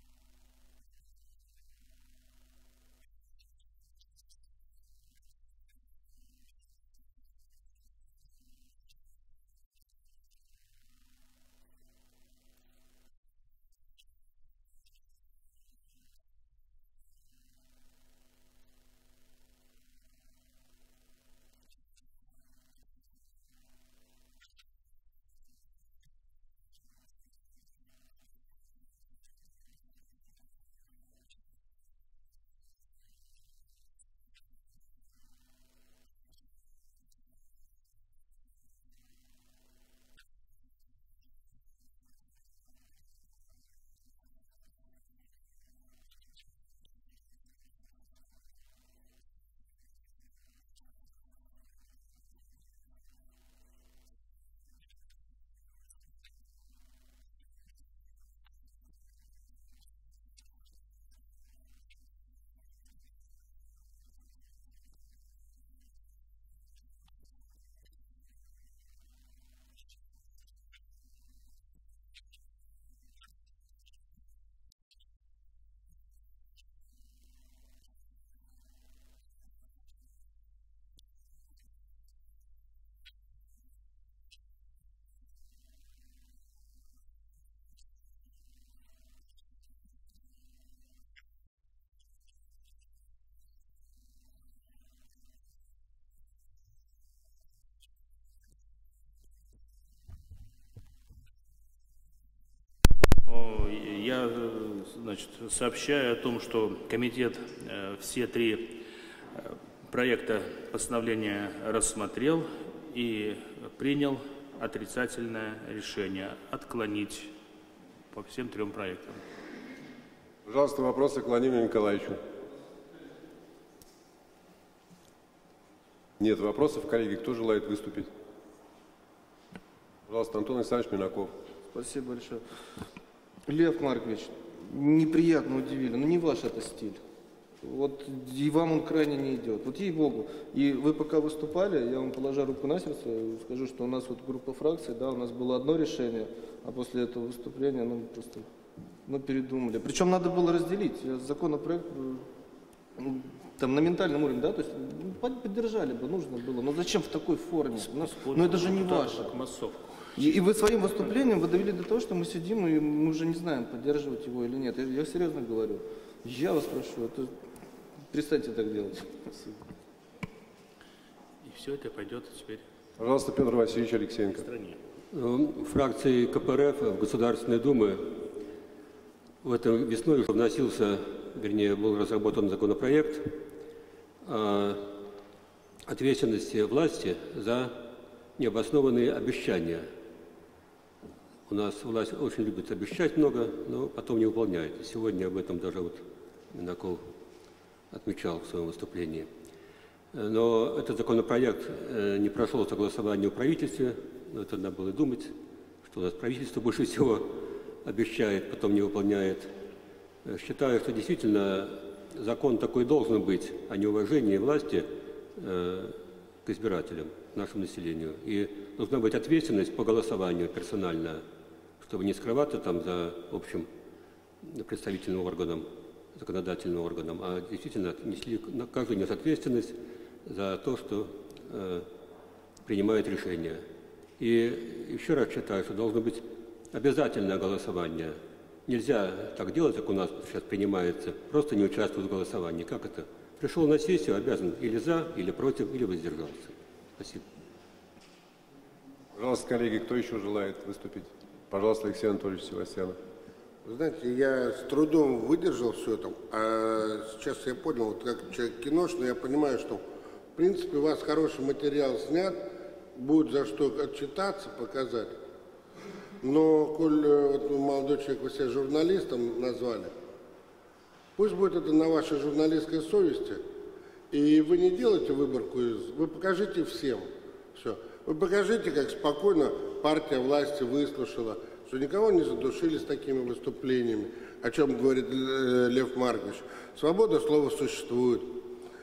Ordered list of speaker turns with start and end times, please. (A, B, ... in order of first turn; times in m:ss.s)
1:43.1-1:48.8 A
1:49.3-1:57.3 A
1:58.1-1:59.2 A
2:00.4-2:02.2 B
2:06.2-2:08.1 B
2:10.1-2:11.3 B
2:11.7-2:12.4 C
2:13.4-2:17.0 C
2:17.6-2:28.5 C
2:29.0-2:32.2 C
2:33.0-2:39.3 C
2:37.8-2:40.4 A
2:40.2-2:47.3 C
2:48.1-2:49.6 C
2:51.4-2:52.6 A
2:53.0-2:54.4 B
2:54.4-2:54.8 A
2:55.1-2:58.3 D
2:59.4-3:03.4 D
3:04.2-3:04.9 D
3:05.8-3:07.8 D
3:08.4-3:09.9 D
3:11.5-3:17.1 D
3:17.9-3:19.3 D
3:20.1-3:29.5 D
3:30.2-3:41.2 D
3:41.8-3:43.7 D
3:44.4-3:51.9 D
3:52.6-3:53.6 D
3:54.2-4:07.2 D
4:09.1-4:13.0 B
4:13.6-4:19.8 E
4:20.4-4:25.1 E
4:26.2-4:29.9 E
4:31.2-4:33.4 E
4:34.1-4:48.4 E